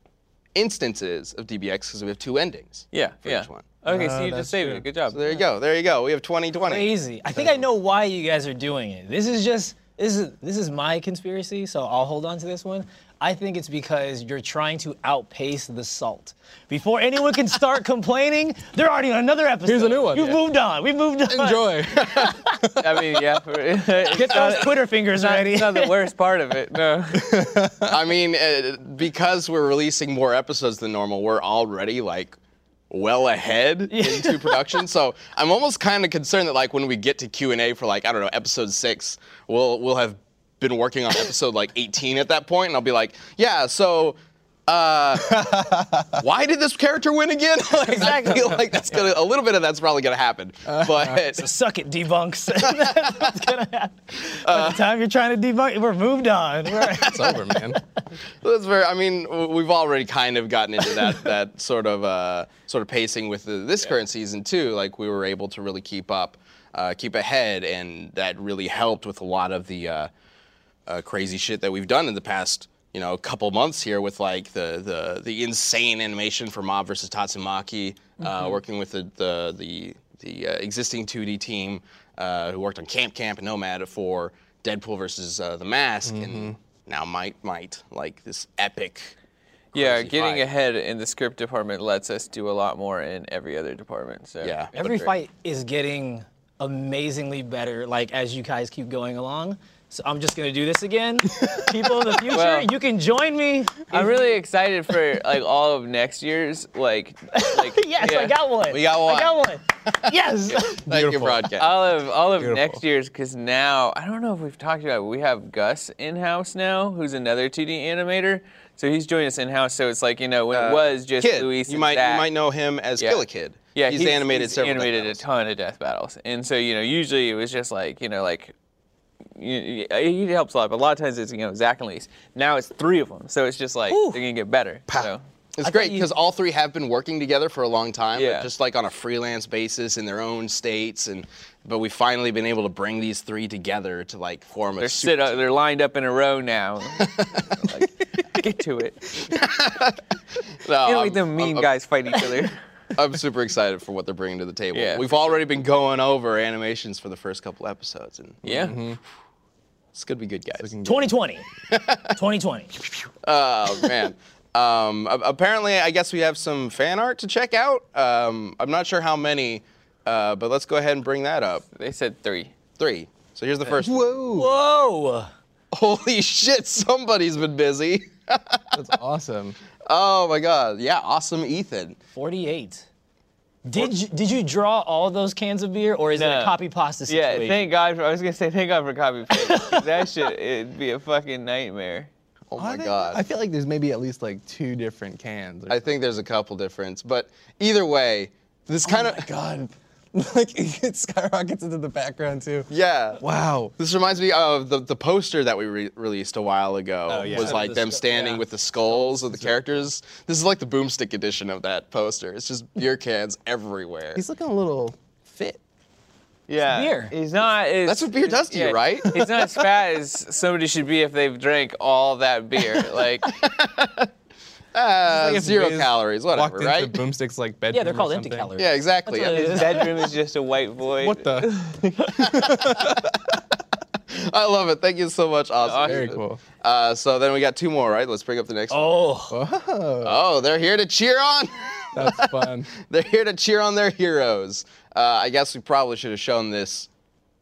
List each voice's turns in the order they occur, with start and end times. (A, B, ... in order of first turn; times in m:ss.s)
0:00.6-0:03.7 A
0:02.9-0:05.2 B
0:03.8-0:04.9 C
0:05.1-0:06.9 A
0:06.6-0:22.5 D
0:19.6-0:20.4 C
0:21.3-0:23.2 C
0:22.8-0:27.4 B
0:24.1-0:25.9 D
0:27.1-0:28.0 C
0:27.9-0:32.4 A
0:32.9-0:51.5 A
0:33.9-0:34.8 D
0:45.2-0:46.2 C
0:47.8-0:48.7 D
0:50.7-0:51.2 C
0:51.3-0:57.6 D
0:52.6-0:53.4 A
0:54.4-0:54.8 A
0:56.9-0:57.4 A
0:57.0-0:57.8 C
0:58.4-1:10.1 A
1:10.9-1:29.1 A
1:18.3-1:18.6 B
1:26.0-1:26.6 C
1:29.7-1:30.5 A
1:29.7-1:35.1 B
1:34.4-1:34.8 A
1:34.8-1:44.2 D
1:42.3-1:42.7 B
1:43.9-1:48.4 B
1:47.3-1:50.9 D
1:48.7-1:51.7 A
1:50.9-1:51.5 C
1:51.6-2:02.3 B
1:52.4-1:52.8 C
2:00.5-2:05.2 A
2:03.0-2:08.5 B
2:09.4-2:15.2 B
2:13.9-2:14.2 D
2:15.6-2:25.4 A
2:15.6-2:16.1 D
2:18.2-2:18.5 B
2:24.8-2:29.1 B
2:27.0-2:27.5 A
2:29.2-2:30.0 A
2:30.6-2:31.7 A
2:30.8-2:32.6 B
2:33.0-2:38.7 A
2:34.7-2:35.1 B
2:38.4-2:38.8 B
2:38.4-2:39.0 C
2:39.9-2:40.8 A
2:40.6-2:41.1 C
2:40.8-2:41.5 D
2:41.7-2:42.2 A
2:42.1-2:42.8 D
2:43.2-2:51.6 A
2:51.8-2:52.5 B
2:52.8-2:54.1 A
2:53.7-2:54.5 C
2:54.3-2:55.3 D
2:55.7-2:58.8 A
2:58.7-2:59.6 C
2:59.9-3:02.0 A
3:02.2-3:02.9 D
3:03.6-3:07.7 D
3:06.2-3:06.6 B
3:07.1-3:12.1 B
3:09.3-3:10.0 D
3:12.5-3:13.2 A
3:12.6-3:16.0 C
3:15.7-3:19.3 A
3:18.8-3:23.8 C
3:22.7-3:23.2 A
3:23.8-3:34.2 A
3:27.1-3:27.8 C
3:27.2-3:28.4 D
3:34.2-3:35.6 C
3:36.5-3:43.3 B
3:36.7-3:37.1 D
3:37.9-3:39.3 A
3:43.2-3:44.1 A
3:44.7-3:47.0 A
3:45.0-3:48.5 C
3:47.7-3:50.0 D
3:48.6-3:49.9 A
3:49.3-3:52.2 B
3:51.0-3:53.1 C
3:52.2-3:53.1 A
3:54.1-3:59.0 A
3:55.6-3:56.1 B
3:55.8-3:56.4 C
3:58.7-3:59.4 D
3:59.3-4:00.2 C
4:00.0-4:06.9 A
4:01.9-4:02.7 C